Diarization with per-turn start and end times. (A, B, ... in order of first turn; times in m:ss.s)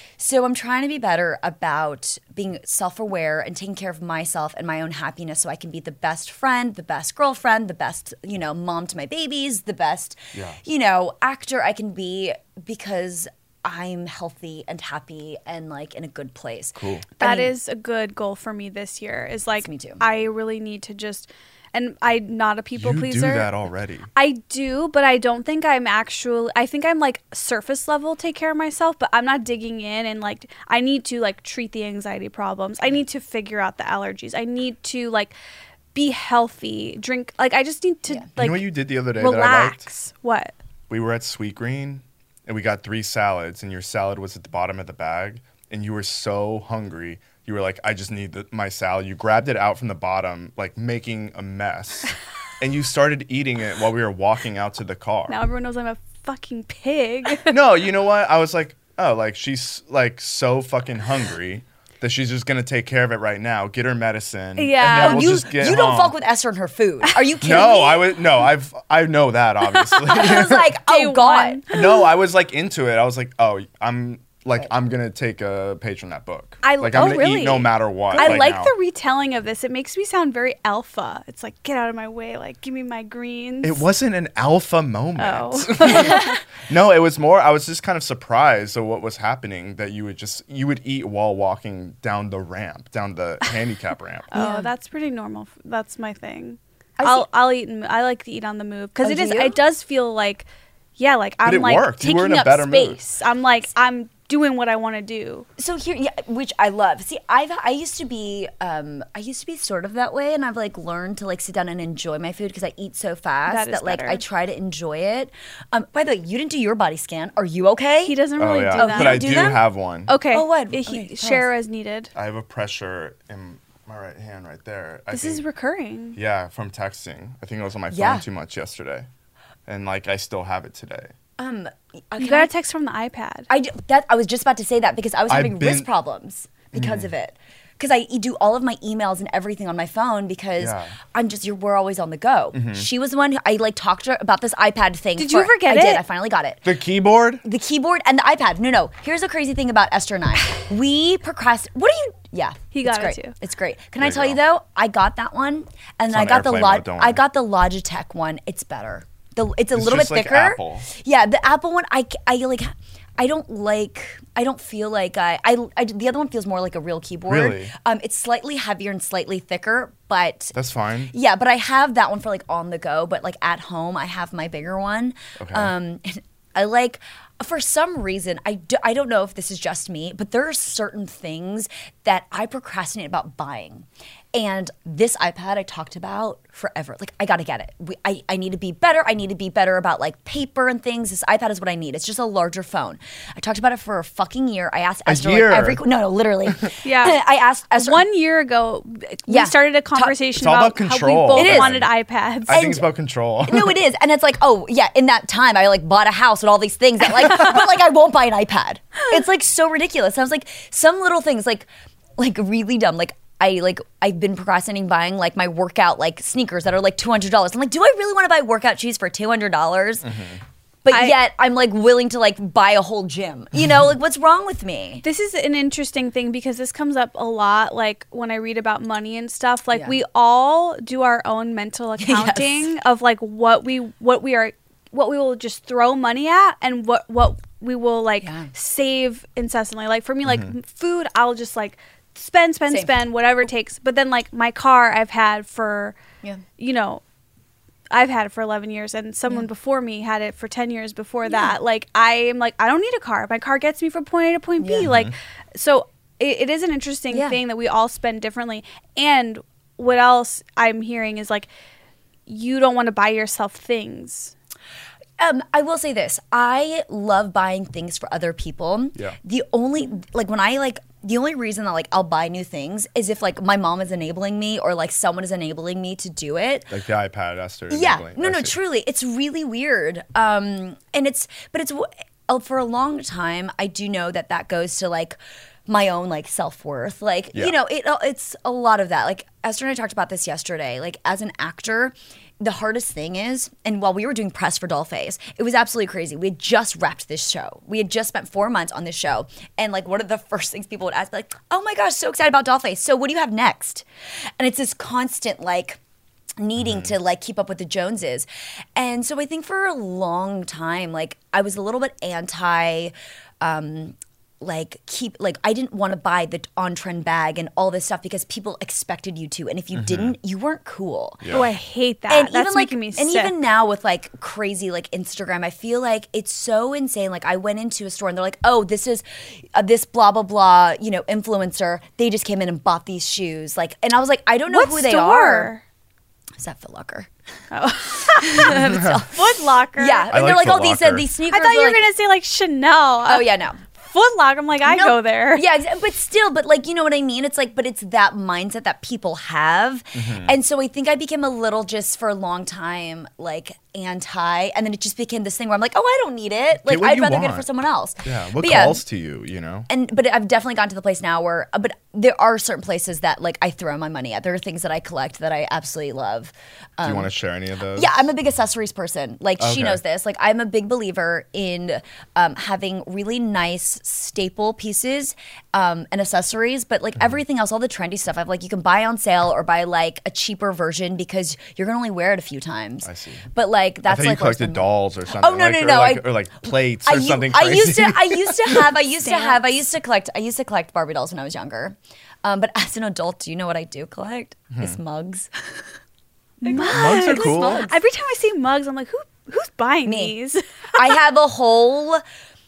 0:00.2-0:17.5 A
0:16.8-0:17.1 B
0:17.2-0:23.5 C
0:19.6-0:20.0 A
0:22.8-0:24.1 B
0:24.1-0:35.3 C
0:35.9-0:40.5 C
0:38.4-0:39.8 B
0:40.9-0:55.4 B
0:55.3-0:57.6 C
0:57.4-1:06.2 B
1:04.6-1:05.3 C
1:04.8-1:08.2 A
1:07.4-1:10.7 B
1:09.6-1:11.8 C
1:10.1-1:11.6 A
1:11.7-1:18.7 B
1:16.6-1:23.8 C
1:16.9-1:17.3 A
1:18.1-1:18.5 A
1:23.6-1:34.3 B
1:25.2-1:26.4 C
1:34.3-1:40.5 C
1:34.3-1:34.7 A
1:37.0-1:37.3 A
1:39.0-1:39.6 A
1:41.0-1:45.5 C
1:41.4-1:43.0 B
1:45.6-1:58.2 A
1:53.5-1:54.2 C
1:58.0-2:02.1 C
1:58.4-2:00.1 B
1:58.7-1:59.6 A
2:00.3-2:01.5 A
2:02.1-2:05.4 B
2:05.1-2:06.2 C
2:06.1-2:09.1 B
2:07.9-2:08.2 A
2:09.7-2:11.1 B
2:11.4-2:12.5 A
2:12.2-2:13.5 C
2:13.5-2:26.7 A
2:15.3-2:15.9 B
2:16.7-2:17.1 B
2:20.6-2:20.9 B
2:22.5-2:22.9 B
2:25.2-2:26.0 C
2:26.6-2:27.4 B
2:27.4-2:50.5 A
2:32.7-2:33.3 C
2:34.0-2:34.4 B
2:36.1-2:37.2 B
2:39.7-2:40.9 B
2:47.3-2:47.7 B
2:50.5-2:51.1 B
2:51.1-3:18.0 A
2:55.4-2:55.7 B
3:15.0-3:15.8 B
3:16.8-3:17.2 C
3:17.7-3:22.8 C
3:19.3-3:20.2 A
3:20.3-3:21.9 B
3:21.3-3:21.8 A
3:22.4-3:23.8 B
3:22.5-3:22.9 A
3:23.4-3:40.1 A
3:40.0-3:40.4 B
3:40.8-3:45.0 A
3:40.9-3:41.2 C
3:45.0-4:06.0 C
3:52.0-3:52.7 A
3:58.2-3:58.5 A
4:00.2-4:00.5 B
4:02.7-4:03.0 A
4:06.6-4:07.0 C
4:07.9-4:21.5 C
4:11.3-4:11.5 A
4:14.6-4:14.9 A
4:14.8-4:15.1 B
4:17.1-4:17.4 A
4:22.3-4:24.3 C
4:25.2-4:36.7 A
4:36.7-4:38.5 B
4:37.7-5:05.8 A
5:06.4-5:21.3 A
5:06.6-5:06.9 B
5:19.7-5:20.1 B
5:21.2-5:21.5 B
5:21.3-5:23.4 C
5:22.1-5:35.5 A
5:34.5-5:35.6 C
5:36.4-5:37.1 A
5:37.5-5:40.1 C
5:37.9-5:39.2 A
5:38.6-5:39.0 B
5:39.8-5:41.8 A
5:40.1-5:41.0 B
5:41.3-5:45.4 C
5:43.0-5:43.6 A
5:44.6-5:58.8 A
5:49.9-5:50.3 B
5:56.6-5:57.4 B
5:58.0-5:59.7 B
5:59.7-6:07.1 A
6:06.8-6:07.9 B
6:07.7-6:35.7 A
6:09.4-6:09.8 B
6:22.8-6:23.3 B
6:23.8-6:28.7 B
6:29.0-6:29.4 C
6:36.4-6:40.9 C
6:36.4-6:37.8 A
6:36.6-6:37.7 B
6:39.8-6:40.1 A
6:40.7-6:42.0 A